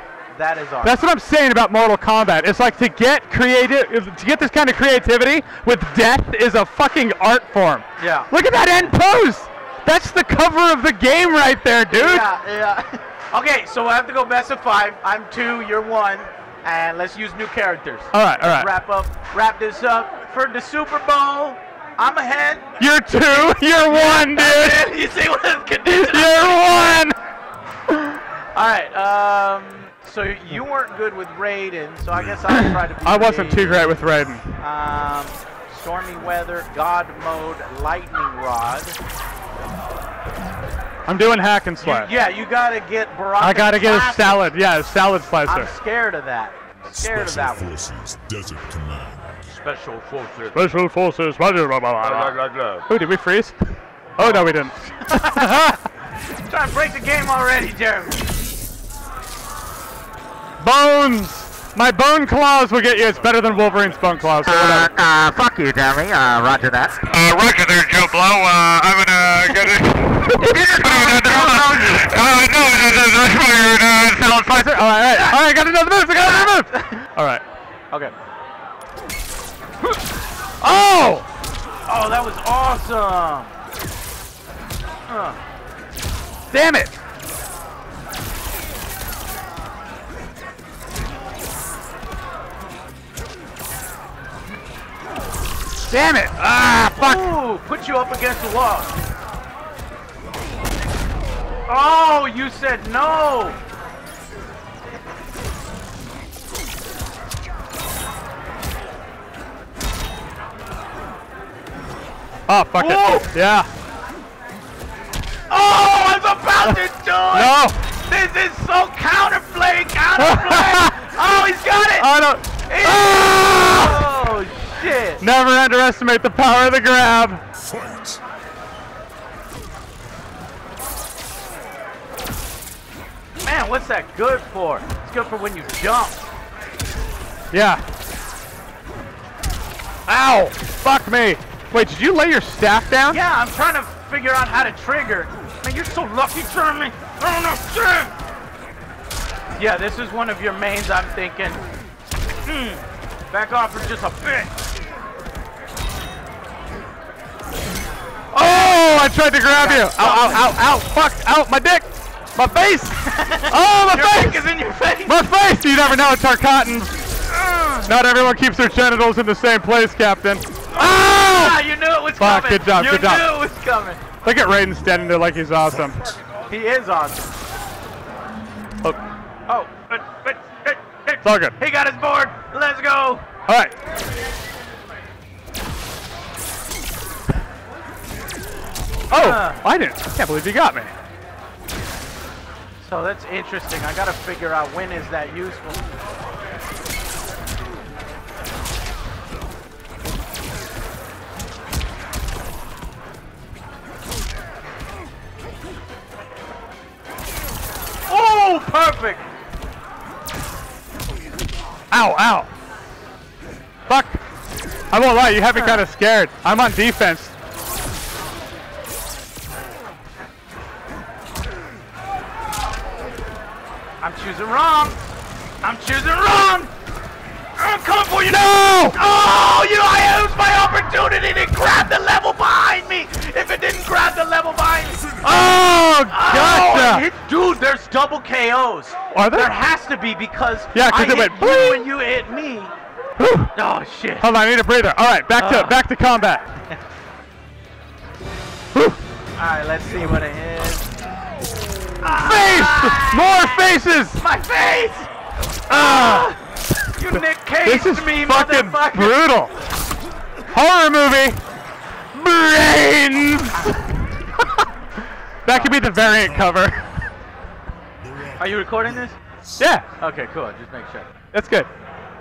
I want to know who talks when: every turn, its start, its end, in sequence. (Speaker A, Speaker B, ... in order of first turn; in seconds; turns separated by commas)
Speaker A: 0.3-1.0, Speaker B: 0.8-12.2, Speaker A: 8.0-8.3, Speaker A: 11.9-22.7, Speaker B: 18.1-18.7, Speaker B: 22.8-24.9, Speaker A: 23.3-27.0, Speaker B: 25.9-27.1, Speaker B: 27.9-28.2, Speaker A: 28.5-34.0, Speaker C: 32.1-32.5, Speaker B: 32.5-34.6, Speaker A: 34.6-39.0, Speaker B: 41.1-42.1, Speaker A: 41.8-44.5, Speaker B: 43.4-45.7, Speaker A: 45.5-47.8, Speaker C: 46.9-49.6, Speaker A: 49.6-50.6, Speaker B: 50.5-53.5, Speaker A: 52.0-52.8, Speaker B: 54.2-55.8, Speaker A: 54.2-55.7, Speaker A: 56.4-58.2, Speaker B: 60.6-64.9, Speaker D: 64.4-67.0, Speaker B: 67.1-77.4, Speaker D: 70.4-73.0, Speaker A: 70.4-72.1, Speaker A: 75.1-75.5, Speaker A: 76.1-77.0, Speaker B: 80.6-81.2, Speaker A: 81.9-83.5, Speaker A: 85.1-85.4, Speaker B: 86.5-86.9, Speaker B: 95.9-97.2, Speaker A: 97.0-98.9, Speaker A: 101.7-103.6, Speaker B: 112.5-113.7, Speaker A: 112.8-113.3, Speaker A: 115.5-122.1, Speaker B: 117.3-117.8, Speaker B: 120.2-121.1, Speaker B: 122.0-124.2, Speaker A: 122.7-125.2, Speaker B: 125.2-127.4, Speaker C: 127.5-128.2, Speaker A: 133.4-136.2, Speaker B: 137.5-137.8, Speaker B: 140.1-143.2, Speaker A: 143.1-148.1, Speaker A: 149.5-151.6, Speaker A: 152.4-154.5, Speaker B: 158.3-164.5, Speaker A: 158.4-160.5, Speaker A: 163.0-165.2, Speaker B: 165.1-167.0, Speaker A: 167.3-167.9, Speaker B: 167.8-171.6, Speaker A: 170.7-174.0, Speaker B: 172.2-173.2, Speaker B: 174.2-176.0, Speaker C: 175.7-176.1, Speaker A: 176.5-177.3, Speaker A: 179.5-183.3, Speaker B: 181.2-181.5, Speaker B: 183.5-183.7, Speaker A: 189.1-189.6, Speaker B: 189.1-190.9, Speaker A: 192.8-195.8, Speaker A: 208.1-209.2, Speaker B: 211.9-212.5, Speaker B: 213.9-214.2, Speaker B: 214.9-217.3, Speaker A: 215.5-215.8, Speaker A: 224.0-225.0, Speaker A: 225.6-226.7, Speaker A: 227.6-235.3, Speaker B: 228.3-229.0, Speaker B: 235.2-237.0, Speaker A: 236.1-242.7, Speaker B: 239.1-239.5, Speaker B: 240.7-241.8, Speaker B: 243.2-243.5, Speaker A: 243.5-244.3, Speaker B: 244.2-246.4, Speaker A: 245.4-245.8, Speaker B: 248.7-249.0, Speaker A: 249.4-250.8, Speaker A: 252.0-255.1, Speaker B: 252.2-254.2, Speaker A: 255.7-256.4, Speaker B: 255.7-256.3, Speaker A: 256.9-259.2, Speaker B: 257.6-259.5, Speaker B: 260.5-261.4, Speaker B: 262.1-264.0, Speaker A: 263.5-263.8, Speaker B: 265.4-266.9, Speaker A: 265.5-265.8, Speaker C: 265.8-266.7, Speaker C: 268.0-269.6, Speaker A: 268.4-269.1, Speaker B: 269.6-269.8, Speaker A: 270.0-271.1, Speaker B: 271.3-271.7